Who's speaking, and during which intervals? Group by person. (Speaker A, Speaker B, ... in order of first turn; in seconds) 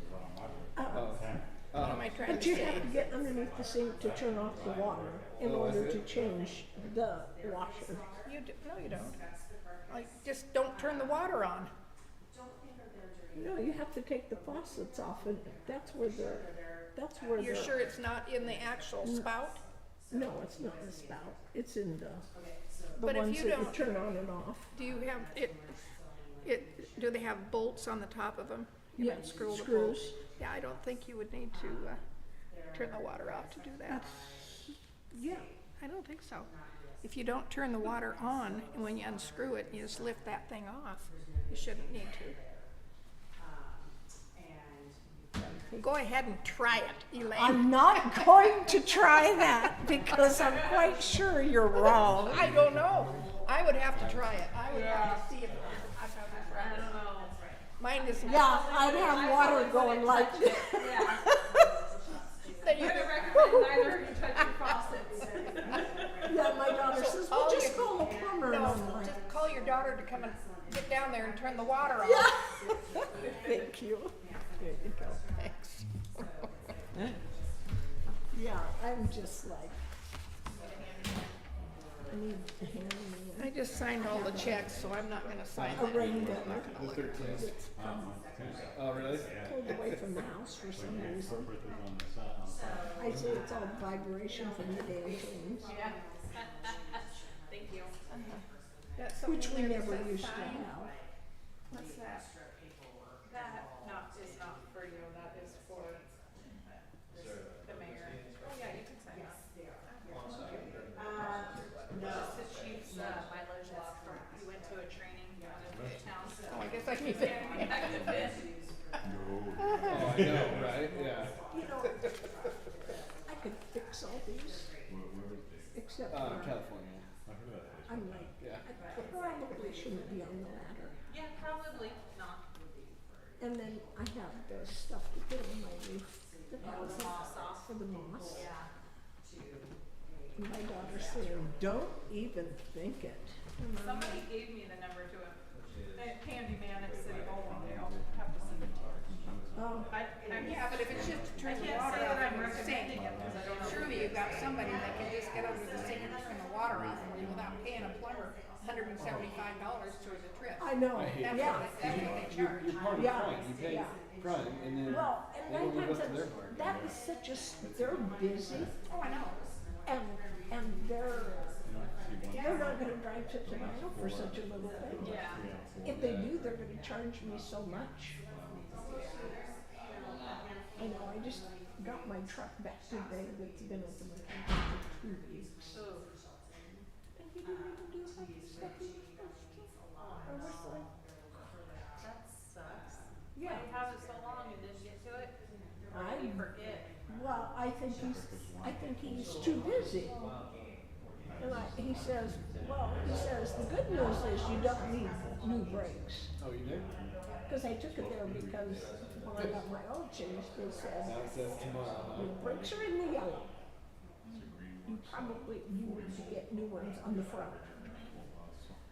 Speaker A: 0.8-1.2, 2.3-8.1, 13.3-17.8, 19.0-19.3, 20.1-22.2, 23.0-24.7, 29.0-30.1, 33.9-34.1, 35.1-35.5, 47.4-52.4, 58.3-61.1, 66.2-69.2, 72.0-72.6, 73.4-75.5, 78.3-79.8, 82.1-84.7, 85.6-88.1, 89.4-91.5, 93.0-95.7, 99.2-100.9, 121.5-122.0, 123.2-124.7, 125.7-126.6, 127.9-130.9, 133.4-138.5, 140.4-144.3, 149.6-149.9, 160.6-161.7, 162.9-164.0, 164.8-168.7, 169.9-171.5, 172.3-175.3, 175.8-178.2, 180.8-185.5, 187.2-189.7, 190.2-190.9, 193.3-193.7, 195.9-196.5, 197.1-200.2, 201.4-206.3, 207.5-211.2, 212.2-213.5, 214.9-217.9
Speaker B: 0.9-2.5, 5.4-6.0, 86.7-87.5, 88.7-89.5, 119.8-121.3, 126.1-127.0, 128.4-128.7, 159.0-159.3, 160.9-166.5, 175.8-176.3, 206.4-206.9, 211.1-212.7
Speaker C: 1.7-2.9, 8.2-9.2, 9.9-11.7, 17.4-19.6, 23.0-24.0, 24.7-25.6, 26.4-32.0, 32.7-34.1, 35.8-36.5, 37.0-42.4, 45.7-48.6, 52.3-56.9, 57.8-58.8, 62.6-63.8, 66.8-72.3, 80.5-81.3, 83.4-87.1, 98.1-98.4, 99.0-100.7, 101.7-102.3, 109.9-110.2, 116.5-118.0, 119.6-120.2, 150.4-153.0, 153.5-162.8, 168.9-169.4, 172.3-172.8
Speaker D: 54.7-55.3, 56.5-57.4, 57.9-61.4, 62.7-66.3, 95.7-97.9, 103.2-106.0, 107.6-109.4, 112.0-118.5, 131.1-132.5, 136.6-137.7, 138.3-138.7, 143.8-149.3, 149.9-154.7, 175.0-175.4, 178.7-179.5, 185.6-186.1, 190.3-190.6, 193.4-195.3, 195.9-196.9, 214.2-214.6